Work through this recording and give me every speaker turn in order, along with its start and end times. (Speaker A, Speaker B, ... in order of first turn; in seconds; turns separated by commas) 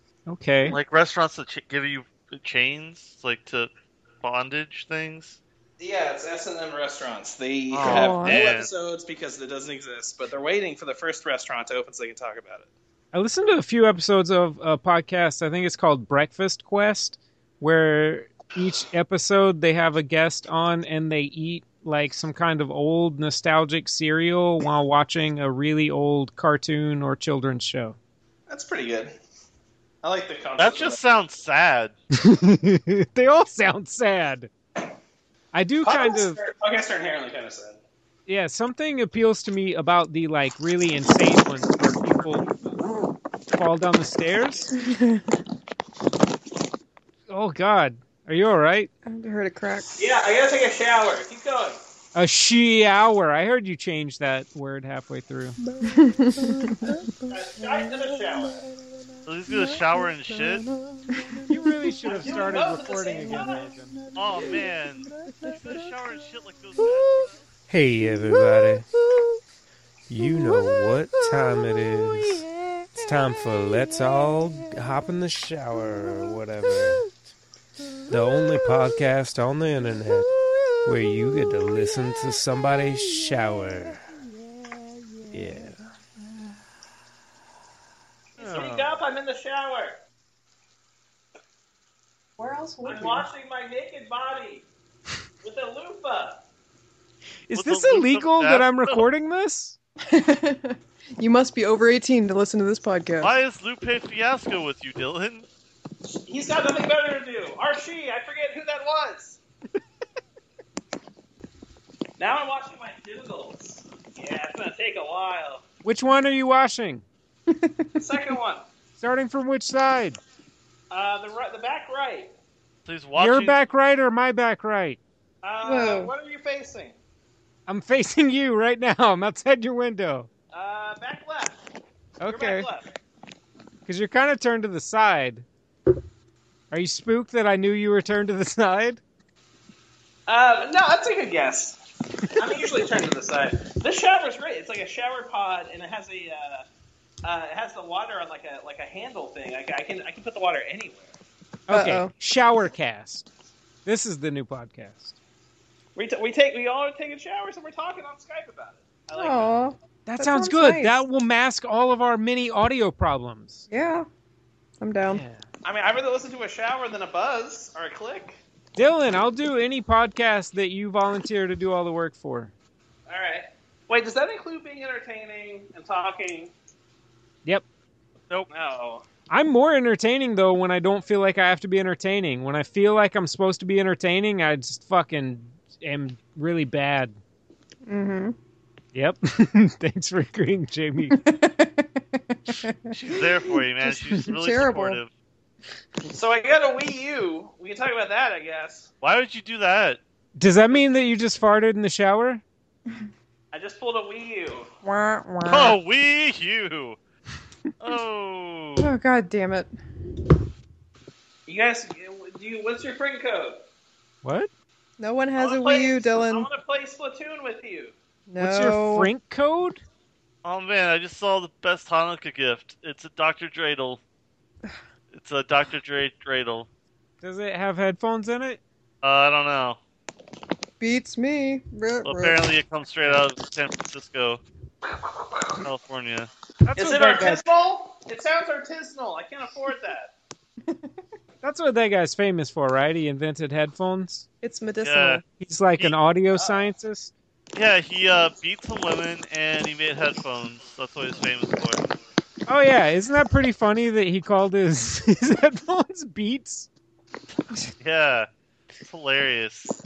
Speaker A: 0.3-0.8, Speaker B: 0.6-5.4, Speaker C: 5.8-12.7, Speaker B: 7.7-8.7, Speaker D: 7.8-8.4, Speaker A: 13.1-28.0, Speaker C: 28.5-29.1, Speaker C: 30.0-31.0, Speaker B: 30.6-31.9, Speaker A: 32.1-34.5, Speaker A: 35.5-36.4, Speaker C: 35.8-37.8, Speaker A: 38.3-42.5, Speaker A: 43.5-44.7, Speaker D: 44.8-45.2, Speaker A: 47.3-48.9, Speaker D: 49.0-49.9, Speaker C: 50.0-51.8, Speaker A: 52.1-55.6, Speaker D: 55.8-57.1, Speaker C: 57.3-58.6, Speaker B: 59.3-60.7, Speaker D: 61.1-61.5, Speaker A: 61.5-64.0, Speaker D: 62.0-62.5, Speaker C: 62.1-63.7, Speaker B: 64.2-67.4, Speaker D: 64.4-64.7, Speaker D: 65.2-65.5, Speaker E: 67.7-68.8, Speaker A: 68.3-68.8, Speaker E: 70.1-72.5, Speaker E: 73.0-77.0, Speaker A: 73.9-74.3, Speaker E: 78.1-80.3, Speaker E: 80.8-84.0, Speaker E: 85.3-85.8, Speaker C: 88.4-90.0, Speaker A: 88.4-89.0, Speaker D: 92.4-93.3, Speaker C: 92.8-94.7, Speaker C: 95.4-96.4, Speaker A: 97.5-99.8, Speaker B: 97.5-99.0, Speaker D: 100.1-103.4, Speaker B: 103.2-105.5, Speaker C: 106.3-109.4, Speaker C: 112.2-115.6, Speaker A: 115.8-117.0, Speaker D: 117.5-118.0, Speaker C: 118.0-118.7, Speaker A: 119.0-120.2, Speaker C: 120.9-122.3, Speaker B: 122.9-123.6, Speaker A: 123.2-125.0, Speaker C: 125.4-127.0, Speaker D: 125.6-126.1, Speaker A: 127.7-130.3, Speaker C: 130.5-131.6, Speaker A: 132.2-132.7, Speaker C: 132.3-132.9, Speaker A: 133.9-135.5, Speaker A: 136.7-139.0, Speaker C: 140.3-141.8, Speaker C: 142.3-146.7, Speaker C: 147.2-151.2, Speaker A: 151.7-153.3, Speaker D: 151.7-152.1, Speaker A: 153.8-155.2, Speaker C: 156.0-159.6, Speaker D: 159.2-161.0, Speaker A: 160.1-163.7, Speaker D: 163.7-164.1, Speaker D: 164.8-165.2, Speaker A: 165.1-165.4, Speaker C: 165.6-168.4, Speaker A: 168.8-172.5, Speaker C: 173.1-176.5, Speaker C: 178.5-179.0, Speaker A: 179.3-187.2, Speaker D: 187.9-188.3, Speaker A: 188.9-191.2, Speaker D: 191.2-195.0, Speaker B: 192.9-195.1, Speaker C: 196.1-198.9, Speaker B: 199.0-200.0, Speaker A: 200.4-202.4, Speaker C: 203.5-204.7, Speaker D: 204.8-205.8, Speaker B: 205.5-207.0, Speaker B: 207.8-208.9, Speaker D: 208.8-209.7, Speaker C: 211.5-213.6, Speaker A: 214.2-214.5, Speaker D: 215.0-216.5, Speaker C: 215.4-217.9, Speaker D: 218.3-219.1, Speaker A: 218.4-219.8, Speaker B: 220.4-224.0, Speaker B: 225.1-226.7, Speaker A: 227.2-228.6, Speaker B: 229.0-229.8, Speaker D: 230.8-232.5, Speaker B: 232.0-234.4, Speaker C: 235.0-235.6, Speaker B: 235.6-236.3, Speaker A: 236.6-237.4, Speaker C: 236.8-240.1, Speaker A: 241.4-244.2, Speaker D: 244.4-245.2, Speaker B: 244.8-245.2, Speaker A: 245.4-247.1, Speaker C: 246.3-246.7, Speaker B: 247.6-251.8, Speaker A: 252.5-256.7, Speaker B: 257.8-258.3, Speaker B: 258.8-259.7